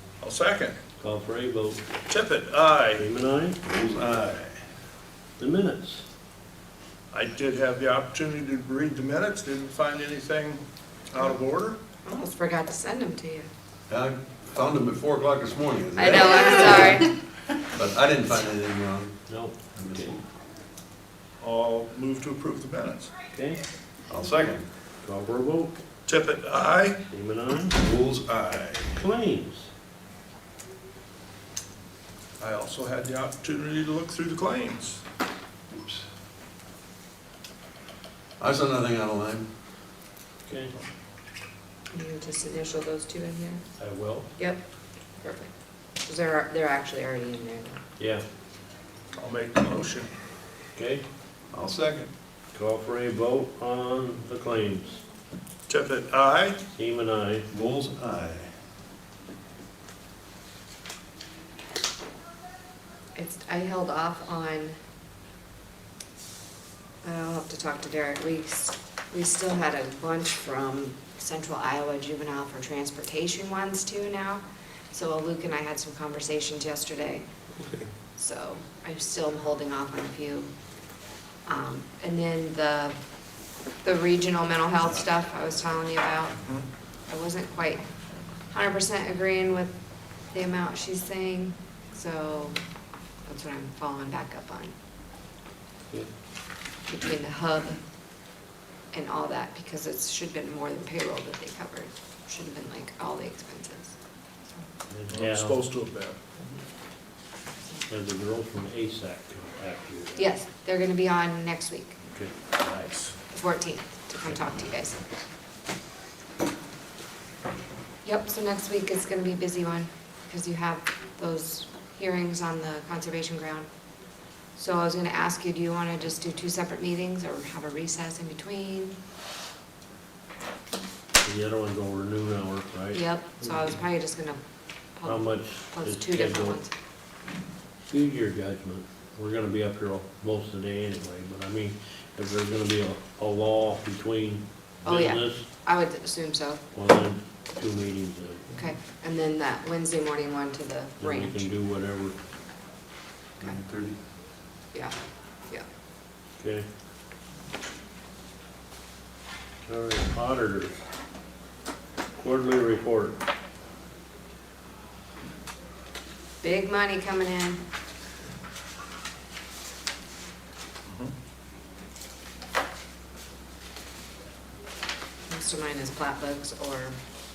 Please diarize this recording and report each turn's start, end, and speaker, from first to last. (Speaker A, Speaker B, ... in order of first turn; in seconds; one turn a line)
Speaker A: 0.2-0.8
Speaker B: 1.0-1.9
Speaker A: 2.1-3.1
Speaker B: 3.0-3.6
Speaker C: 3.7-4.6
Speaker B: 5.4-6.0
Speaker A: 7.1-11.8
Speaker D: 12.0-13.5
Speaker C: 13.9-17.0
Speaker D: 16.0-17.1
Speaker C: 17.8-19.2
Speaker B: 19.3-20.1
Speaker C: 19.7-20.2
Speaker A: 21.4-23.1
Speaker B: 23.3-23.6
Speaker C: 24.1-24.7
Speaker B: 25.0-25.8
Speaker A: 26.1-27.0
Speaker B: 27.1-27.8
Speaker C: 27.8-29.0
Speaker B: 29.0-29.7
Speaker A: 32.4-35.0
Speaker C: 35.7-36.0
Speaker C: 38.4-39.5
Speaker B: 40.5-40.7
Speaker D: 41.9-43.6
Speaker B: 43.8-44.3
Speaker D: 45.2-45.5
Speaker D: 46.1-47.8
Speaker B: 48.0-48.2
Speaker A: 49.2-50.1
Speaker B: 50.8-51.0
Speaker C: 51.5-52.1
Speaker B: 52.5-55.0
Speaker A: 55.7-56.6
Speaker B: 56.7-57.5
Speaker C: 57.5-58.5
Speaker D: 63.1-64.8
Speaker D: 67.0-77.3
Speaker D: 78.2-80.5
Speaker D: 81.5-83.0
Speaker D: 83.8-86.4
Speaker D: 87.1-87.8
Speaker D: 88.5-89.7
Speaker D: 90.3-92.6
Speaker D: 93.3-94.8
Speaker D: 96.9-97.8
Speaker D: 98.9-104.7
Speaker B: 104.9-105.6
Speaker A: 105.1-106.2
Speaker B: 107.9-110.3
Speaker D: 110.2-112.0
Speaker A: 112.6-113.2
Speaker D: 113.3-115.0
Speaker D: 118.0-123.7
Speaker D: 124.5-129.0
Speaker B: 131.2-133.6
Speaker D: 132.9-134.4
Speaker D: 134.9-136.7
Speaker B: 135.1-136.6
Speaker B: 137.8-145.5
Speaker D: 144.9-146.6
Speaker B: 146.7-148.5
Speaker D: 148.5-151.5
Speaker B: 151.0-152.2
Speaker C: 153.4-154.0
Speaker B: 156.4-156.7
Speaker B: 159.7-160.8
Speaker B: 162.2-163.2
Speaker D: 166.4-167.6
Speaker A: 170.9-171.1
Speaker D: 175.3-177.0